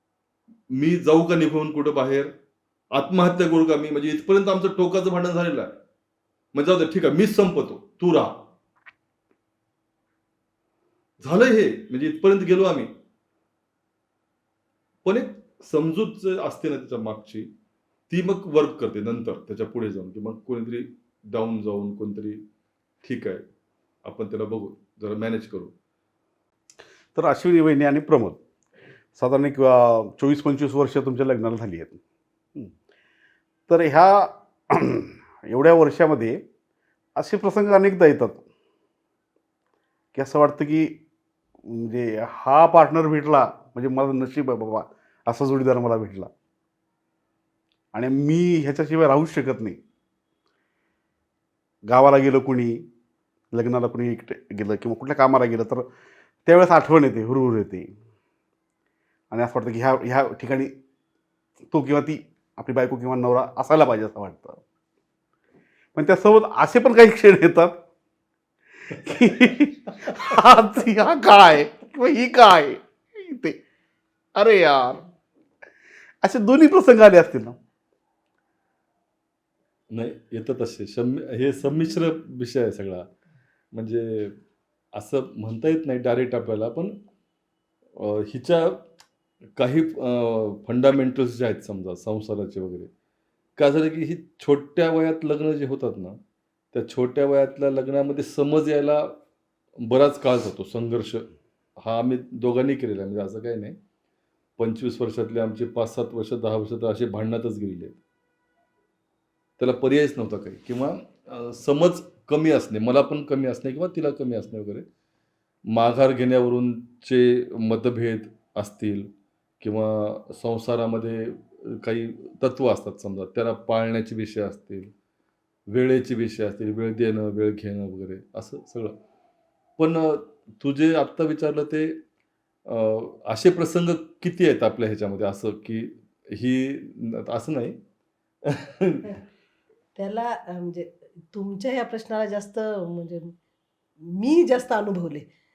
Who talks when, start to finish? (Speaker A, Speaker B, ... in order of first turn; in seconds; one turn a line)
Speaker A: 0.7-2.3
Speaker A: 2.9-5.8
Speaker A: 6.5-8.3
Speaker A: 11.2-12.9
Speaker A: 15.0-17.5
Speaker A: 18.1-22.4
Speaker A: 23.0-23.4
Speaker A: 24.0-25.7
Speaker B: 27.1-28.4
Speaker B: 29.1-32.0
Speaker B: 33.7-36.4
Speaker B: 37.1-38.4
Speaker B: 40.1-41.0
Speaker B: 41.6-46.3
Speaker B: 47.9-49.8
Speaker B: 51.9-52.9
Speaker B: 53.5-55.9
Speaker B: 56.4-57.9
Speaker B: 59.3-60.7
Speaker B: 61.7-64.6
Speaker B: 65.9-67.8
Speaker A: 68.9-69.4
Speaker B: 69.0-73.6
Speaker B: 74.3-75.0
Speaker B: 76.2-77.5
Speaker A: 79.9-83.1
Speaker A: 83.7-84.4
Speaker A: 84.9-87.0
Speaker A: 88.0-88.8
Speaker A: 89.6-92.9
Speaker A: 93.6-96.2
Speaker A: 96.7-99.2
Speaker A: 99.8-101.3
Speaker A: 101.8-103.8
Speaker A: 104.6-108.0
Speaker A: 109.6-114.8
Speaker A: 115.7-124.9
Speaker A: 125.7-129.0
Speaker A: 129.8-132.0
Speaker A: 132.7-137.8
Speaker A: 138.4-139.2
Speaker C: 139.9-143.3
Speaker C: 144.0-145.3